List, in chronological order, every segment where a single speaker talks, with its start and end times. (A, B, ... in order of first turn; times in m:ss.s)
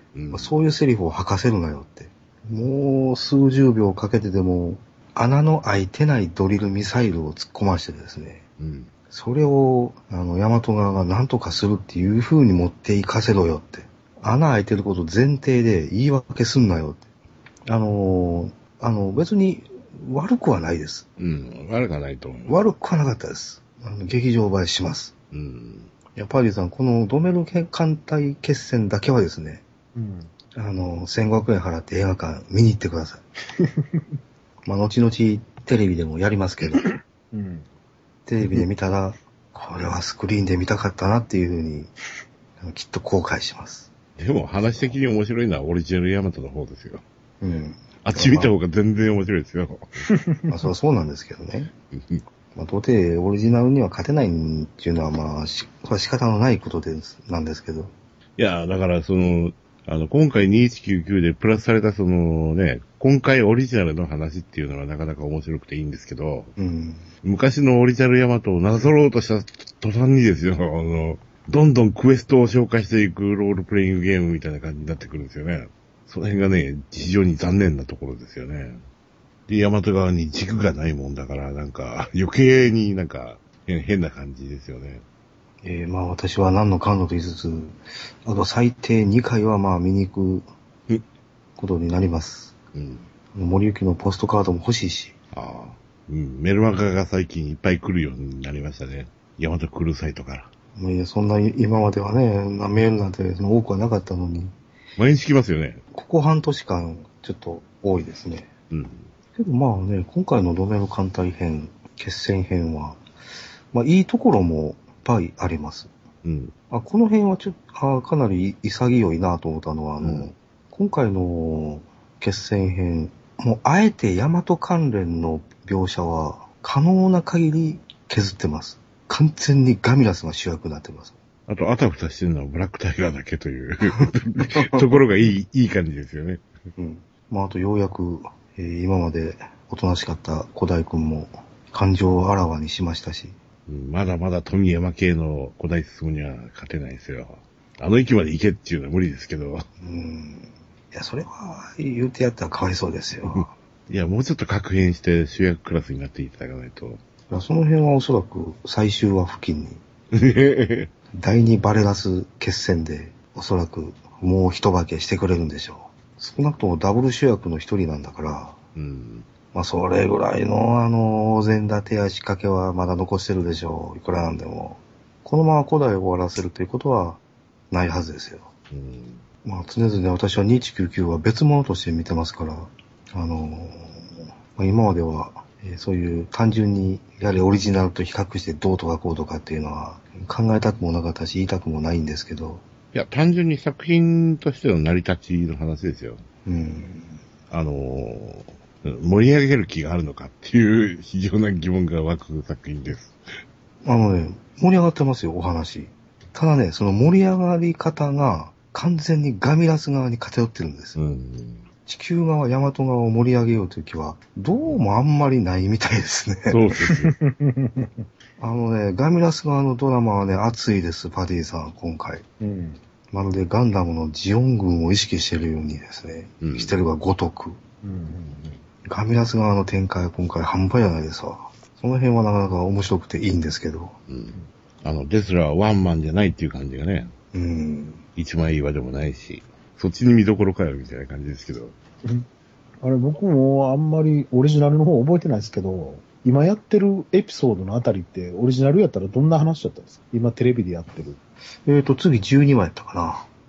0:00.2-0:00.5 A
0:00.3-0:08.4 B
0:08.6-0:08.9 A
0:09.1-0:17.0 B
0:17.7-0:21.1 B
0:21.2-0:22.6 A
0:22.5-0:25.1 B
0:25.3-0:25.9 A
0:26.2-0:29.6 B
0:30.0-0:30.3 C
0:30.5-0:33.2 B
0:33.6-0:34.0 C
0:34.7-0:36.9 B
0:37.3-0:37.7 C
0:38.3-0:41.9 B
0:42.6-0:43.9 B
0:44.2-0:47.0 A
0:47.4-0:48.5 B
0:48.0-0:50.0 A
0:50.1-0:50.4 C
0:50.5-0:51.7 B
0:52.0-0:52.2 A
0:52.6-0:57.9 B
0:58.4-1:06.5 A
1:06.6-1:07.1 B
1:07.2-1:18.8 A
1:19.5-1:25.0 A
1:25.6-1:30.5 B
1:31.6-1:32.5 B
1:32.8-1:33.1 A
1:33.3-1:35.2 B
1:35.3-1:40.5 A
1:40.8-1:44.6 B
1:45.0-1:45.8 A
1:45.9-1:48.5 B
1:48.7-1:49.1 A
1:49.4-1:53.0 B
1:53.7-1:55.9 B
1:56.2-1:56.5 A
1:56.7-2:11.2 B
2:00.0-2:00.3 A
2:11.5-2:16.4 A
2:13.9-2:15.0 B
2:16.8-2:23.4 B
2:23.7-2:29.6 A
2:29.8-2:33.5 B
2:33.3-2:37.0 A
2:37.3-2:39.8 B
2:40.1-2:40.9 A
2:41.1-2:48.6 B
2:48.8-2:49.3 A
2:49.5-2:58.5 B
2:58.7-2:59.2 A
2:59.4-3:04.0 B
3:04.6-3:12.6 B
3:12.9-3:16.2 A
3:16.5-3:17.2 B
3:17.5-3:23.2 A
3:23.8-3:31.0 B
3:31.0-3:31.6 A
3:31.9-3:36.6 B
3:36.5-3:37.2 A
3:36.9-3:37.9 C
3:38.4-3:42.2 B
3:42.4-3:42.8 C
3:43.1-3:47.6 B
3:46.4-3:46.7 A
3:47.8-3:48.6 C
3:48.9-3:54.0 B
3:54.1-3:57.1 A
3:57.3-3:58.0 B
3:58.2-4:01.7 A
4:02.8-4:11.2 C
4:11.7-4:13.3 B